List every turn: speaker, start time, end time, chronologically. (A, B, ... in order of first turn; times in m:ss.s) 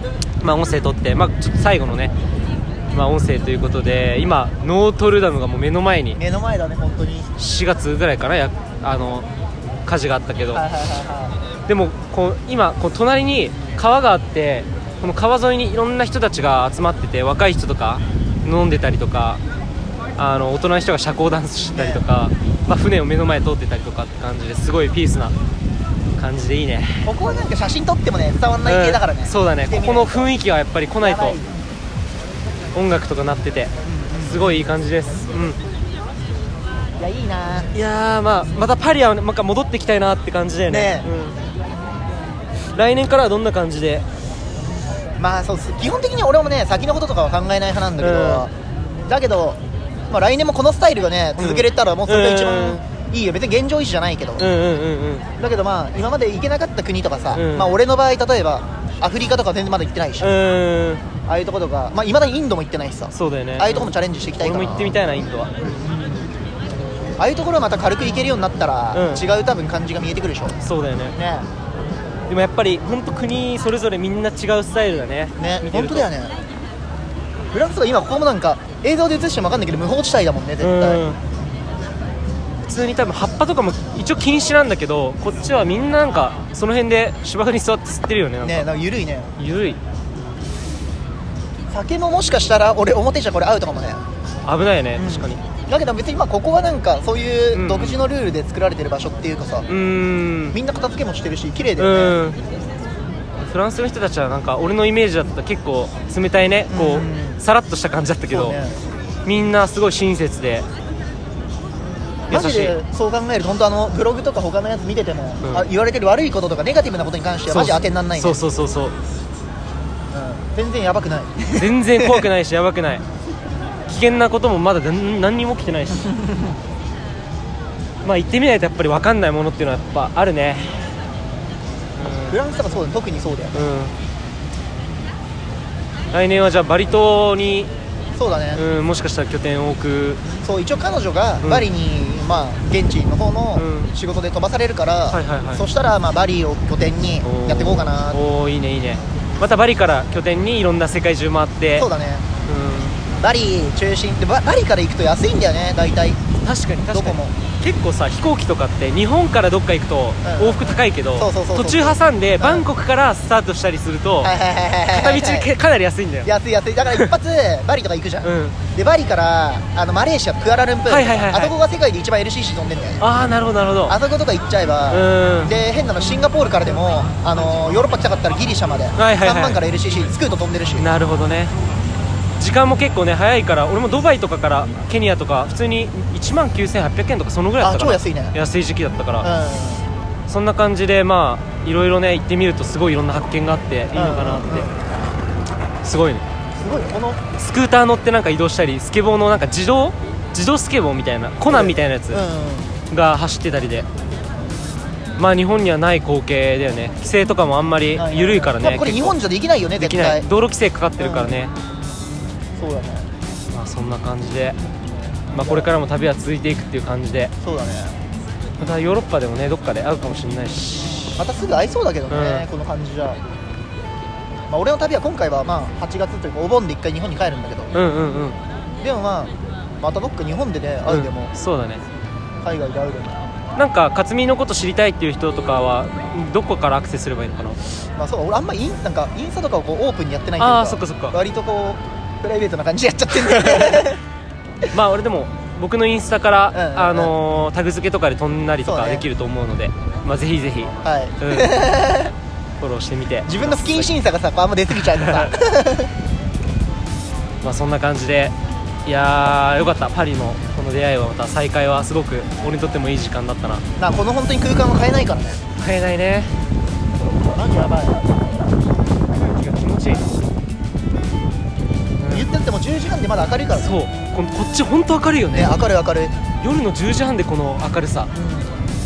0:00.4-0:02.1 A
0:02.9-0:06.2 A
0:06.2-0:07.3 B
0:07.4-0:09.3 A
0:09.8-0:10.6 A
0:10.5-0:11.4 B
0:11.7-0:19.4 A
0:20.2-0:25.3 A
0:21.7-0:22.0 B
0:26.2-0:27.1 A
0:27.0-0:30.3 B
0:28.6-0:31.4 A
0:31.0-0:31.5 B
0:32.7-0:35.6 A
0:33.8-0:34.6 B
0:37.0-0:37.7 B
0:37.7-0:41.4 A
0:40.7-0:41.1 B
0:42.7-0:44.0 A
0:45.2-0:48.5 B
0:48.0-0:48.4 A
0:49.0-0:49.6 B
0:50.1-0:54.5 B
0:51.4-0:52.8 A
0:54.4-0:55.3 A
0:55.4-1:00.4 B
0:57.3-0:57.7 A
1:00.2-1:01.0 A
1:01.2-1:05.0 B
1:03.1-1:05.8 A
1:05.8-1:06.2 B
1:07.2-1:10.6 B
1:08.9-1:09.2 A
1:10.6-1:11.2 A
1:11.1-1:11.5 B
1:12.3-1:16.1 A
1:15.4-1:16.3 B
1:17.5-1:21.0 B
1:20.6-1:21.2 A
1:22.6-1:28.7 A
1:28.4-1:29.3 B
1:29.4-1:29.8 A
1:31.7-1:34.0 B
1:34.4-1:35.4 A
1:35.0-1:39.7 B
1:37.5-1:38.0 A
1:39.7-1:40.6 A
1:40.5-1:42.2 B
1:41.8-1:42.4 A
1:43.4-1:48.6 A
1:46.7-1:47.4 B
1:48.3-1:48.8 B
1:49.2-1:50.6 A
1:52.1-1:58.4 B
1:52.3-1:52.8 A
1:57.5-1:58.9 A
2:00.1-2:02.3 B
2:01.6-2:03.0 A
2:03.9-2:06.1 A
2:06.1-2:06.4 B
2:08.0-2:10.9 A
2:12.0-2:12.4 A
2:12.3-2:13.6 B
2:13.5-2:13.9 A
2:16.1-2:17.7 A
2:18.2-2:18.6 B
2:18.5-2:20.2 A
2:20.4-2:28.2 B
2:21.4-2:21.7 A
2:23.6-2:23.9 A
2:25.1-2:25.7 A
2:27.2-2:31.9 A
2:31.8-2:32.3 B
2:32.5-2:33.0 A
2:33.0-2:36.2 B
2:36.4-2:44.3 A
2:36.9-2:37.3 B
2:40.2-2:42.7 B
2:44.2-2:45.5 B
2:44.9-2:46.3 A
2:46.2-2:53.0 B
2:48.2-2:48.6 A
2:50.9-2:51.5 A
2:53.0-2:54.0 A
2:53.8-3:00.9 B
2:54.9-2:55.5 A
2:59.0-2:59.6 A
3:00.8-3:01.5 A
3:02.4-3:09.3 A
3:07.6-3:08.4 B
3:09.2-3:09.8 B
3:10.3-3:14.7 A
3:13.9-3:14.7 B
3:15.8-3:16.2 A
3:16.5-3:17.2 B
3:17.4-3:22.2 A
3:21.5-3:22.7 B
3:22.9-3:23.9 A
3:25.2-3:29.2 A
3:27.9-3:30.3 B
3:29.8-3:31.5 A
3:31.0-3:31.4 B
3:32.6-3:33.1 B
3:33.5-3:34.6 A
3:35.3-3:37.3 A
3:35.4-3:35.7 B
3:37.4-3:38.0 B
3:38.6-3:41.1 A
3:41.2-3:43.2 B
3:42.1-3:42.5 A
3:44.5-3:47.7 B
3:47.7-3:48.4 A
3:48.8-3:51.3 B
3:50.8-3:51.8 A
3:52.4-3:53.2 B
3:53.6-3:57.6 A
3:58.0-4:04.0 B
4:00.4-4:01.2 A
4:03.1-4:03.9 A
4:04.7-4:11.5 A
4:06.5-4:07.2 B
4:08.6-4:09.0 B
4:10.8-4:12.1 B
4:12.6-4:13.9 A
4:13.2-4:15.9 B
4:14.8-4:15.3 A
4:17.4-4:18.3 A
4:18.8-4:23.6 A
4:23.8-4:25.4 B
4:25.6-4:26.3 A
4:27.3-4:28.0 B
4:29.2-4:30.1 A
4:32.0-4:32.3 A
4:32.1-4:33.7 B
4:33.5-4:35.6 A
4:35.3-4:36.1 B
4:36.4-4:38.1 A
4:38.1-4:38.6 B